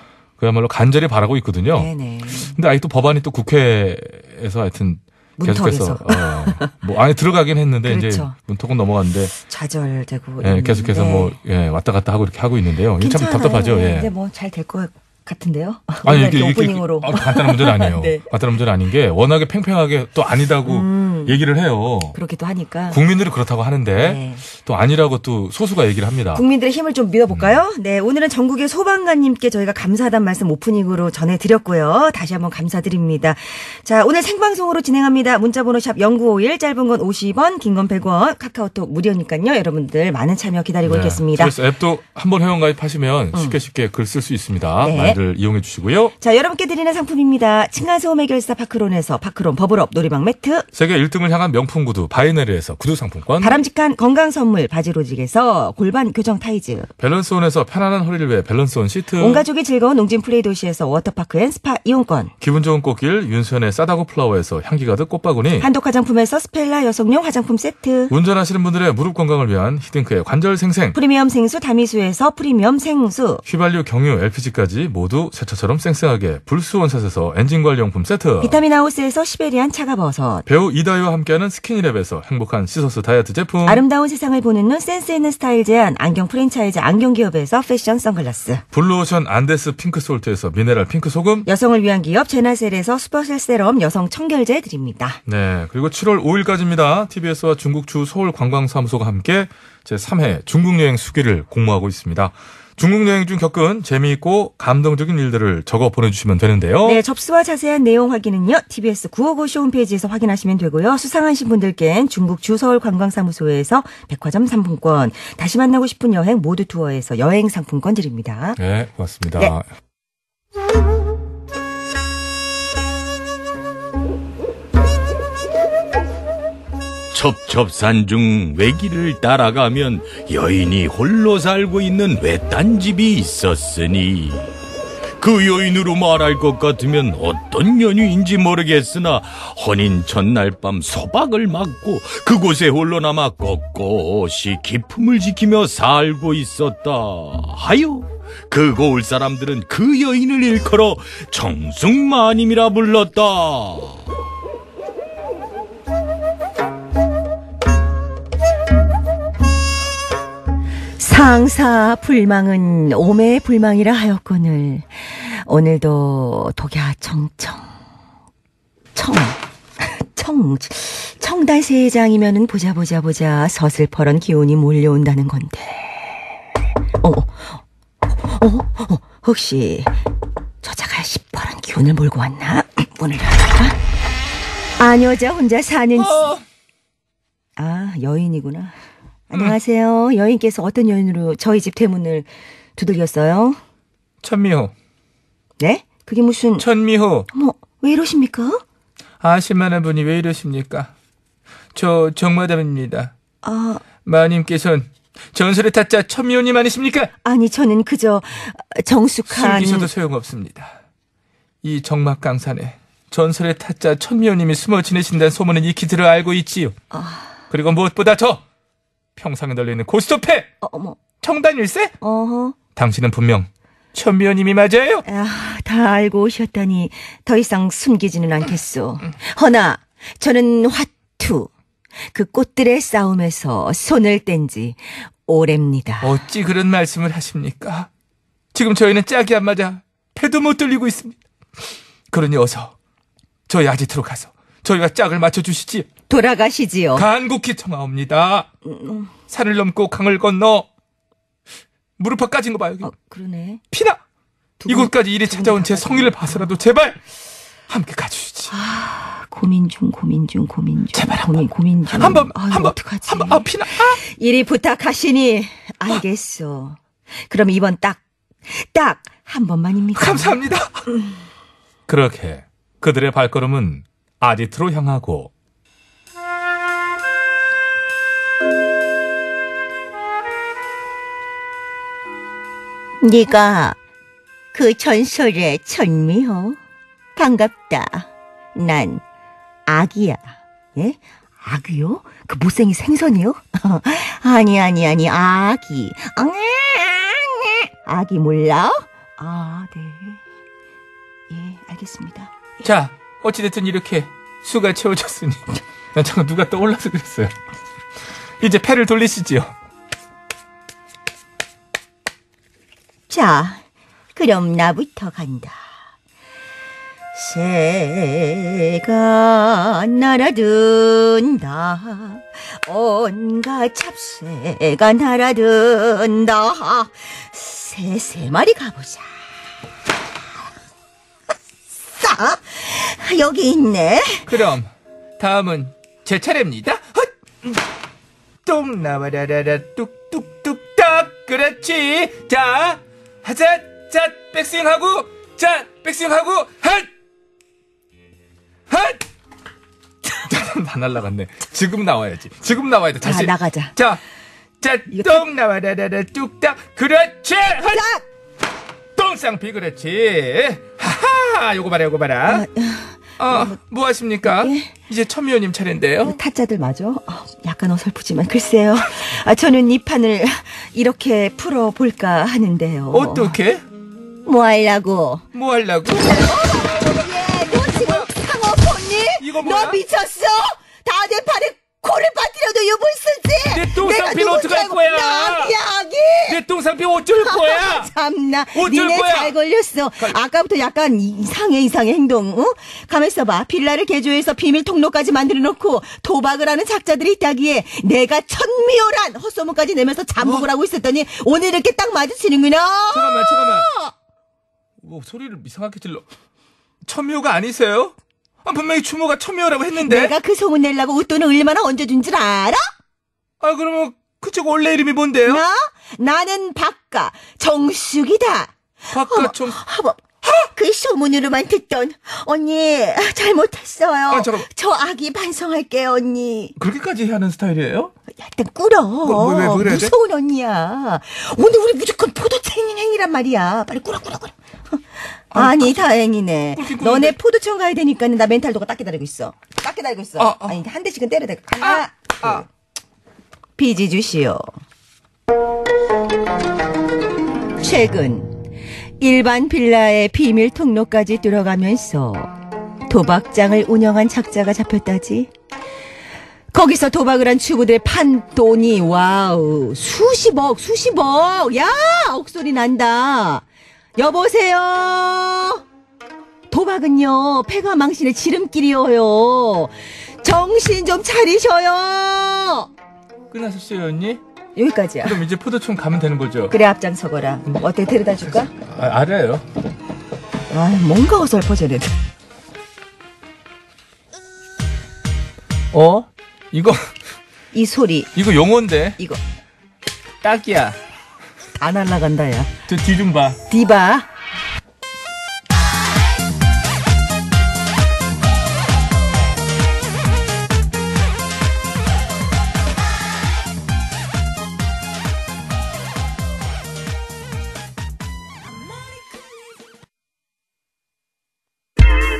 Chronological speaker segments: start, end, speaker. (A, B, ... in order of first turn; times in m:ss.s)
0:00.4-0:01.9 A
0:01.7-0:02.6 B
0:02.5-0:09.3 A
0:05.4-0:06.7 B
0:07.8-0:08.3 B
0:09.4-0:11.3 B
0:10.4-0:14.1 A
0:13.0-0:18.2 B
0:16.0-0:22.2 A
0:20.6-0:21.4 B
0:22.1-0:23.0 B
0:22.9-0:26.4 A
0:24.0-0:24.4 B
0:26.3-0:41.5 B
0:27.3-0:27.6 A
0:40.8-0:46.1 A
0:44.8-0:45.2 B
0:46.2-0:50.6 B
0:50.7-0:53.6 A
0:53.4-0:56.9 B
0:57.0-0:59.4 A
0:59.2-1:02.3 B
1:02.4-1:05.7 A
1:05.6-1:08.1 B
1:08.1-1:11.0 A
1:10.9-1:13.4 B
1:13.4-1:18.6 A
1:18.4-1:20.4 B
1:20.4-1:23.8 A
1:23.6-1:28.6 B
1:28.7-1:31.5 A
1:31.4-1:35.2 B
1:35.2-1:47.0 A
1:46.8-1:58.6 B
1:58.6-1:59.6 A
2:07.1-2:14.5 C
2:15.2-2:34.0 C
2:41.0-2:47.7 B
2:48.9-2:56.3 B
2:57.0-2:57.6 B
2:58.2-3:00.0 B
3:00.6-3:03.8 B
3:04.8-3:06.2 B
3:05.9-3:06.4 A
3:07.6-3:08.7 B
3:09.3-3:13.6 B
3:14.2-3:14.7 A
3:15.6-3:16.6 B
3:16.6-3:17.3 A
3:17.3-3:18.6 B
3:19.2-3:20.9 A
3:21.7-3:23.1 A
3:23.4-3:23.8 B
3:24.0-3:27.1 A
3:27.2-3:29.9 B
3:29.3-3:30.8 A
3:31.6-3:36.8 A
3:36.9-3:37.4 B
3:37.5-3:38.4 A
3:39.2-3:40.5 A
3:40.6-3:41.0 B
3:41.2-3:41.9 A
3:42.0-3:42.6 B
3:42.8-3:45.0 A
3:45.0-3:51.5 B
3:52.1-3:56.1 B
3:56.0-3:57.9 A
3:58.5-4:01.2 A
4:02.1-4:02.8 A
4:03.5-4:05.9 A
4:06.1-4:07.0 B
4:06.9-4:08.5 A
4:08.6-4:09.1 B
4:09.3-4:10.7 A
4:12.0-4:12.9 A
4:12.8-4:13.6 B
4:13.7-4:14.0 A
4:14.6-4:16.4 B
4:14.7-4:17.0 A
4:17.7-4:18.5 A
4:18.5-4:30.4 B
4:20.9-4:24.0 A
4:30.0-4:30.8 A
4:31.9-4:35.3 A
4:43.0-4:43.8 B
4:44.5-4:46.6 B
4:47.2-4:49.0 B
4:49.7-5:00.2 B
5:01.3-5:02.3 B
5:02.6-5:07.3 A
5:08.4-5:09.5 A
5:13.1-5:13.6 B
5:14.1-5:15.6 B
5:17.1-5:29.0 B
5:31.9-5:34.2 B
5:34.2-5:37.6 A
5:38.4-5:46.9 A
5:48.7-5:49.0 A
5:50.2-5:54.0 A
5:53.0-5:53.7 B
5:54.6-5:57.9 A
5:54.9-5:55.2 B
5:57.7-5:58.0 B
5:59.0-6:02.4 A
6:02.2-6:03.6 B
6:03.2-6:06.2 A
6:04.2-6:04.7 B
6:06.0-6:13.3 B
6:12.9-6:13.6 A
6:14.2-6:15.2 B
6:15.3-6:18.1 A
6:16.1-6:26.4 B
6:19.2-6:19.8 A
6:23.5-6:25.6 A
6:26.3-6:27.9 A
6:27.2-6:43.9 B
6:28.5-6:29.3 A
6:40.2-6:40.5 A
6:42.9-6:43.7 A
6:44.8-6:46.0 A
6:46.8-6:50.1 A
6:49.8-6:52.6 B
6:53.4-6:55.4 A
6:55.2-7:06.5 B
6:58.9-6:59.6 A
7:04.1-7:04.5 A
7:06.6-7:07.9 A
7:08.2-7:14.8 B
7:09.0-7:09.9 A
7:15.3-7:22.4 B
7:15.3-7:15.8 A
7:16.5-7:17.2 A
7:20.2-7:20.6 A
7:21.6-7:22.4 A
7:23.6-7:24.4 B
7:27.6-7:28.4 B
7:29.0-7:32.3 B
7:32.9-7:35.3 B
7:36.5-7:43.4 B
7:44.0-7:45.6 B
7:46.5-7:49.7 B
7:50.2-7:52.7 B
7:53.3-7:54.2 A
7:54.6-7:55.2 B
7:55.0-7:56.5 A
7:56.5-7:58.5 B
7:58.5-7:59.4 A
8:00.5-8:01.9 B
8:05.7-8:06.9 A
8:07.5-8:08.1 B
8:08.1-8:09.0 A
8:10.2-8:10.8 A
8:11.6-8:12.5 B
8:12.7-8:13.4 A
8:13.5-8:14.1 B